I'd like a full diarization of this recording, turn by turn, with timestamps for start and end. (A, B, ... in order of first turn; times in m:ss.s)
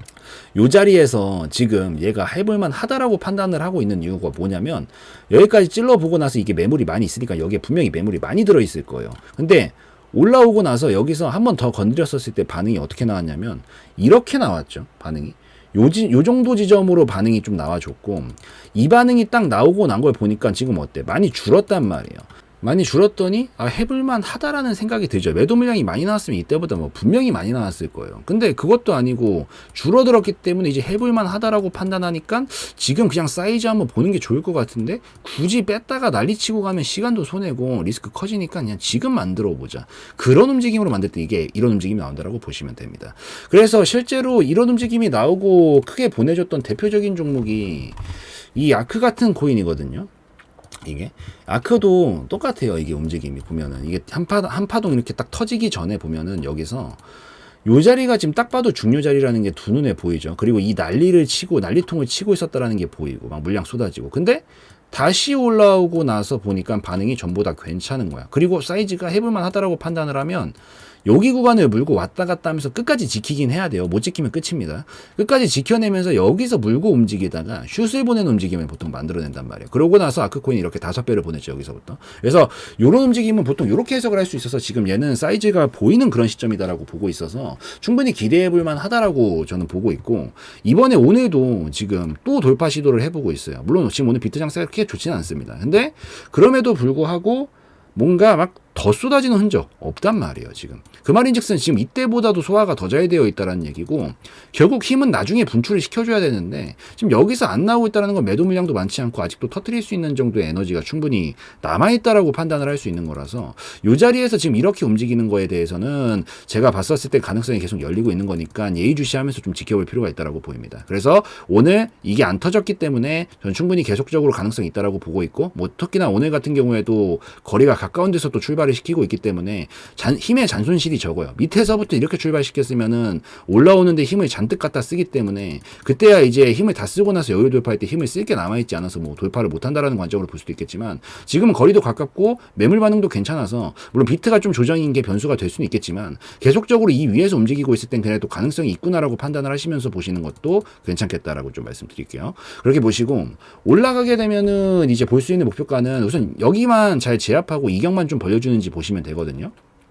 0:00.5-0:48.0 A
0:48.5-0:50.1 A
0:50.8-0:57.0 A
0:57.6-2:39.5 A